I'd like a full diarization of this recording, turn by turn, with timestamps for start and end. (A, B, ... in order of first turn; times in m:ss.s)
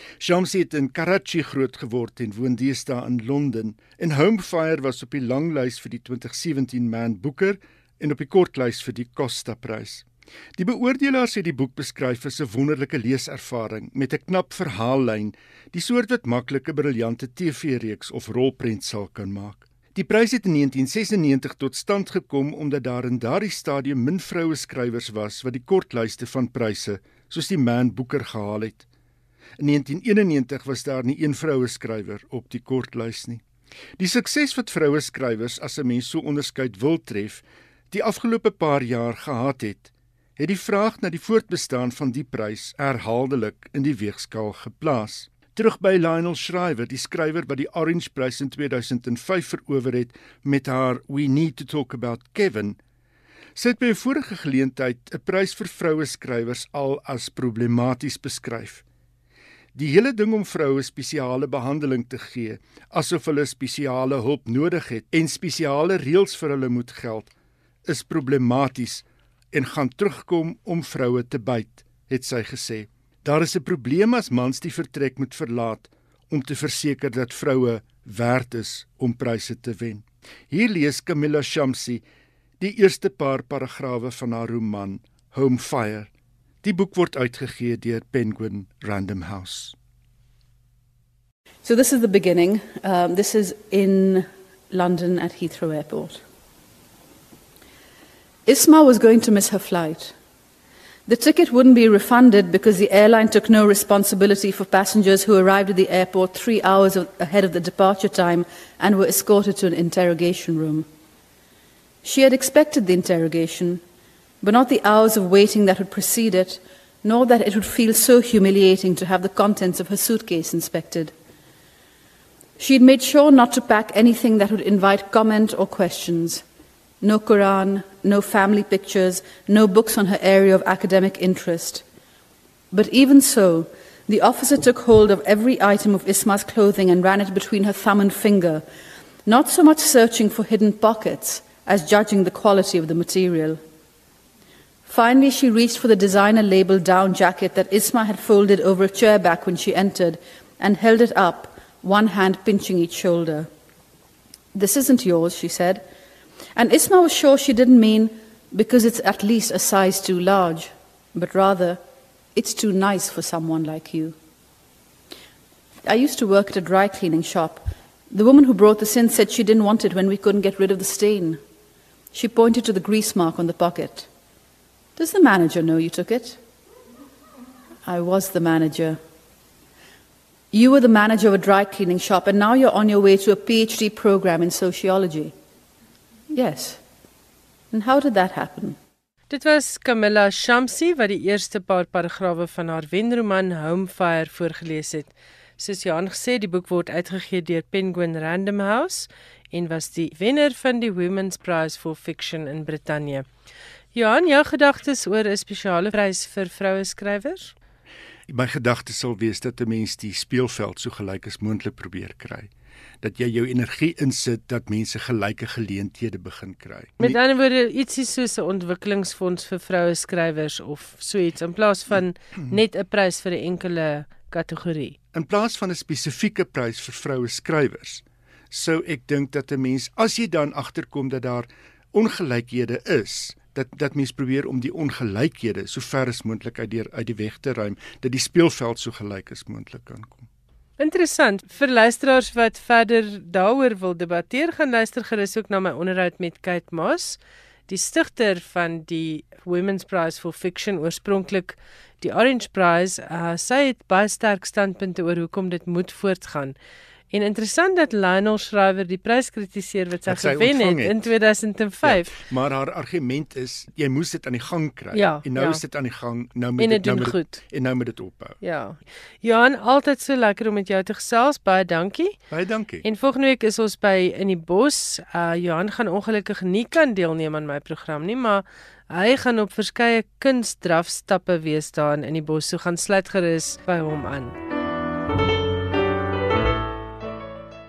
0:00.2-0:28.8 A
0:29.6-0:33.4 A
0:34.0-0:52.8 A
0:53.6-0:58.8 A
0:59.8-1:07.3 A
1:07.9-1:22.0 A
1:22.6-1:26.1 A
1:26.6-1:29.8 A
1:31.6-1:36.2 B
1:38.5-1:40.2 B
1:41.1-1:50.9 B
1:52.0-1:53.8 B
1:54.4-2:01.1 B
2:02.6-2:06.4 B
2:07.0-2:11.8 B
2:12.7-2:18.6 B
2:19.2-2:23.6 B
2:24.9-2:33.5 B
2:34.5-2:35.8 B
2:36.6-2:41.8 B
2:42.4-2:44.2 B
2:45.8-2:51.4 B
2:52.1-2:54.1 B
2:55.0-2:56.4 B
2:57.8-2:59.0 B
3:00.5-3:05.3 B
3:06.3-3:06.8 B
3:07.7-3:08.8 B
3:09.3-3:23.2 C
3:24.0-3:27.6 C
3:28.3-3:32.5 A
3:33.0-3:37.2 A
3:37.0-3:45.0 C
3:45.1-4:00.3 A
4:00.8-4:16.6 C
4:17.1-4:22.2 C
4:20.1-4:21.1 A
4:21.8-4:28.4 A
4:24.9-4:25.6 C
4:26.6-4:27.4 C
4:28.4-4:32.2 C
4:32.3-4:32.8 A
4:32.8-4:44.4 C